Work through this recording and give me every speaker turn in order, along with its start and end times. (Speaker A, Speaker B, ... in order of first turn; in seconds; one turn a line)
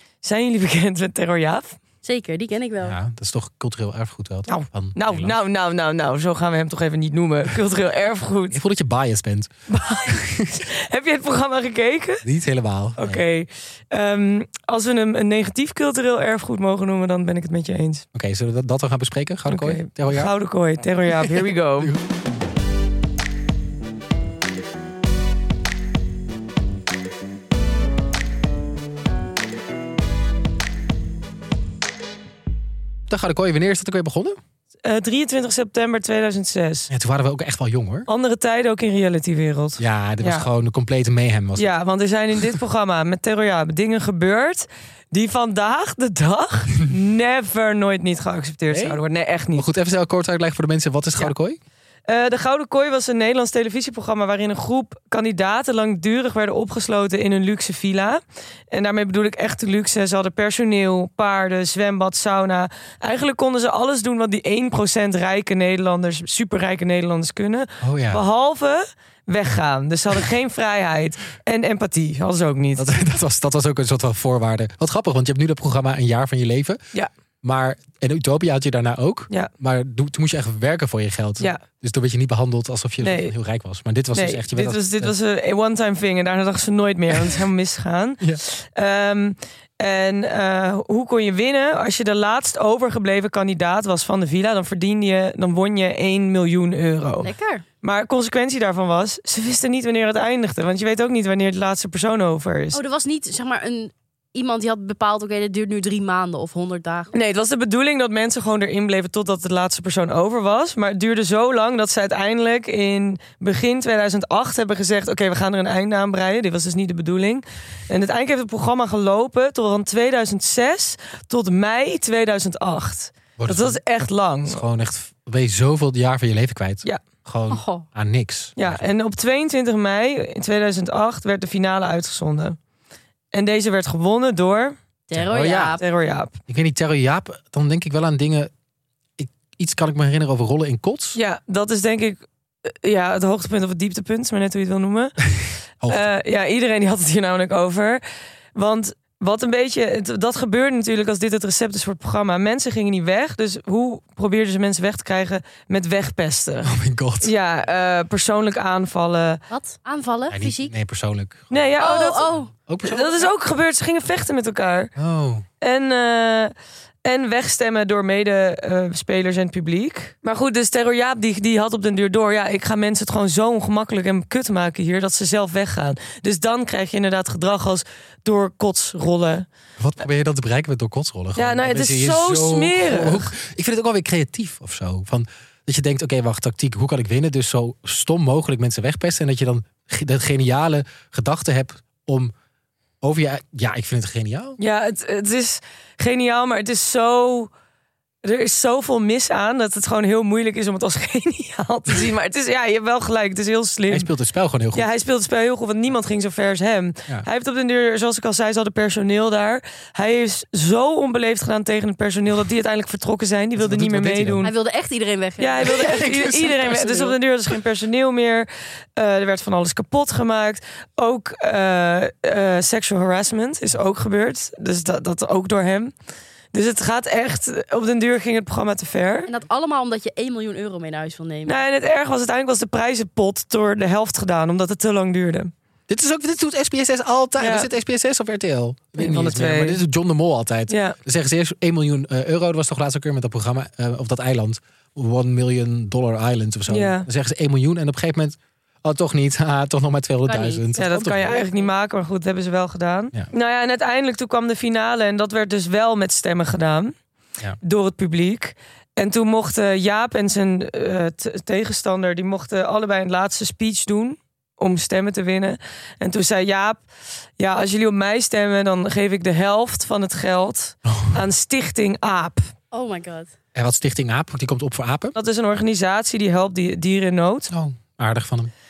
Speaker A: 0.2-1.8
Speaker B: 2.0-3.0
Speaker C: 2.8-5.3
Speaker A: 4.5-8.6
Speaker C: 8.5-9.5
Speaker A: 9.7-12.2
Speaker C: 10.1-10.6
Speaker C: 12.2-13.2
Speaker A: 13.0-18.1
Speaker C: 18.1-20.3
Speaker A: 19.5-21.9
Speaker C: 21.2-22.0
Speaker C: 33.1-34.4
Speaker A: 34.8-36.9
Speaker C: 36.9-38.1
Speaker A: 38.1-40.5
Speaker C: 39.8-41.7
Speaker A: 41.6-49.7
Speaker C: 48.7-49.0
Speaker C: 49.6-51.6
Speaker A: 52.1-58.2
Speaker A: 58.7-73.1
Speaker C: 67.8-68.2
Speaker C: 72.8-76.8
Speaker C: 77.4-85.1
Speaker A: 83.0-83.3
Speaker A: 84.1-102.8
Speaker B: 97.2-97.6
Speaker B: 102.7-107.1
Speaker A: 107.1-124.6
Speaker C: 123.4-123.8
Speaker C: 124.5-128.8
Speaker B: 127.5-127.9
Speaker A: 128.6-132.6
Speaker A: 133.3-134.8
Speaker B: 135.1-135.8
Speaker C: 135.1-135.8
Speaker A: 135.8-136.3
Speaker C: 136.5-138.5
Speaker C: 139.2-141.2
Speaker A: 141.2-145.2
Speaker C: 145.8-146.1
Speaker A: 145.9-148.0
Speaker A: 148.6-159.4
Speaker C: 156.7-157.3
Speaker B: 159.5-160.7
Speaker C: 160.3-161.7
Speaker A: 161.5-164.9
Speaker B: 161.8-162.5
Speaker C: 162.7-163.3
Speaker C: 165.0-165.4
Speaker A: 165.6-166.5
Speaker A: 167.1-179.5
Speaker C: 179.8-192.3
Speaker A: 181.4-183.3
Speaker C: 193.0-194.6
Speaker A: 194.6-197.5
Speaker A: 198.2-204.1
Speaker C: 203.9-204.9
Speaker A: 204.7-214.5
Speaker C: 213.6-214.5
Speaker B: 214.4-217.2
Speaker A: 215.4-225.9
Speaker C: 215.6-216.7
Speaker A: 226.5-229.3
Speaker B: 229.3-231.6
Speaker A: 231.5-235.5
Speaker C: 235.9-251.4
Speaker A: 237.4-237.7
Speaker A: 239.0-239.8
Speaker A: 240.7-241.0
Speaker A: 246.7-247.1
Speaker B: 250.3-251.7
Speaker A: 250.8-257.0
Speaker A: 257.6-266.9
Speaker A: 267.4-272.5
Speaker C: 270.9-271.2
Speaker B: 272.7-273.3
Speaker C: 273.6-275.2
Speaker A: 275.1-277.5
Speaker C: 277.5-278.5